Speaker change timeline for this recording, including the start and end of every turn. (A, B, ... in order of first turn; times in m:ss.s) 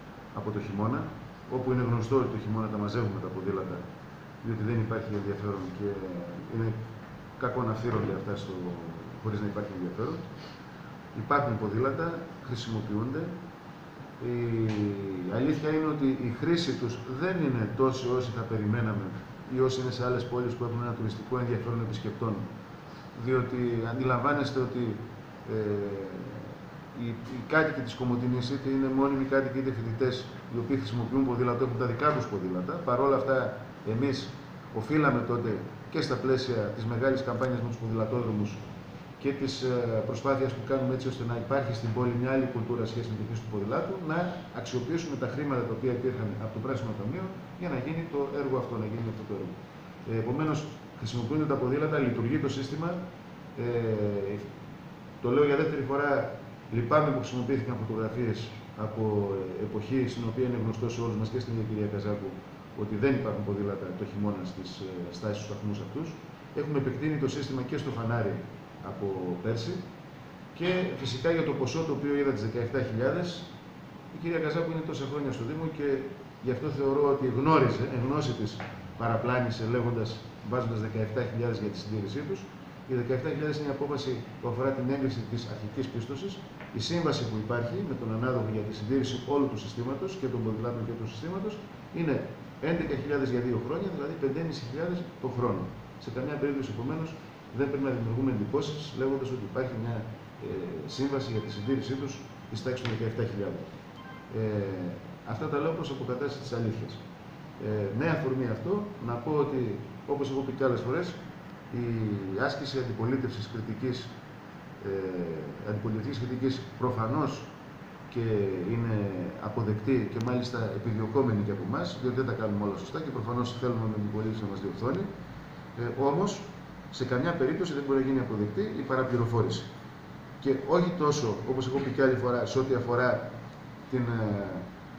0:00.3-0:03.8 A
0:04.4-0:06.8 A
0:07.4-0:10.2 A
0:11.1-0:13.3 A
0:14.2-0:22.5 A
0:23.1-0:38.6 A
0:39.2-0:49.5 A
0:50.0-0:53.0 A
0:53.5-0:54.5 A
0:55.2-1:09.8 A
1:10.5-1:13.5 A
1:14.1-1:43.6 A
1:44.3-1:47.0 A
1:47.6-1:51.2 A
1:51.7-1:54.1 A
1:54.8-1:57.5 A
1:58.1-2:05.1 A
2:05.8-2:09.7 A
2:10.4-2:13.3 A
2:13.9-2:14.6 A